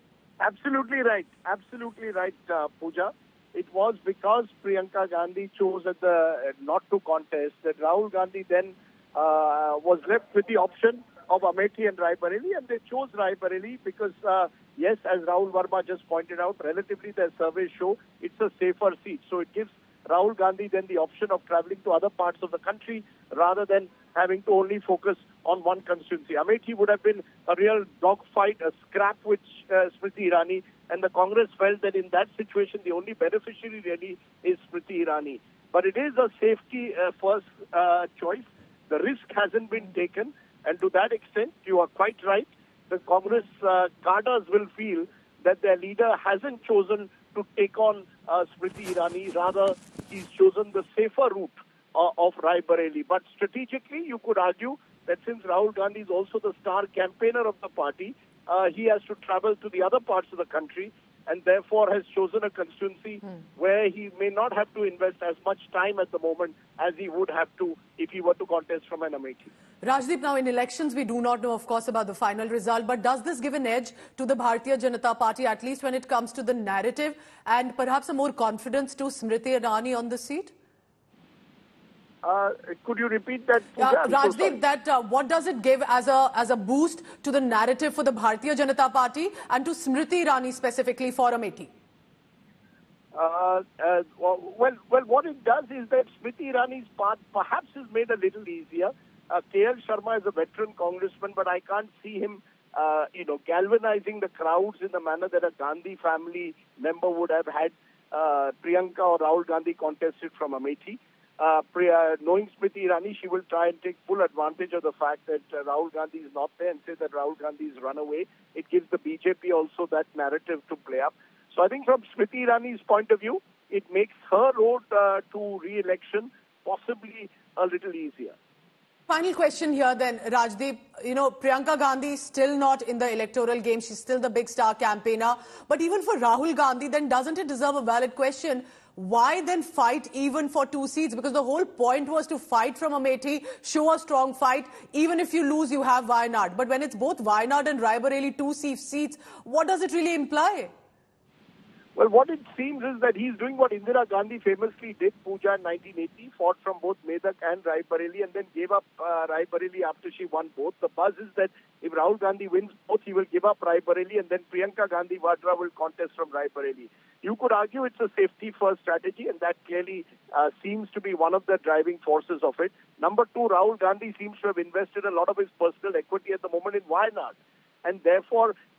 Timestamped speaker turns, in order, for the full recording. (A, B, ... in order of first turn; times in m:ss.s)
0:00.4-1:09.5 A
1:09.8-1:20.5 B
1:22.2-1:24.6 A
1:23.8-1:31.7 B
1:33.1-2:08.4 A
2:09.1-2:30.7 B
2:32.0-2:58.6 A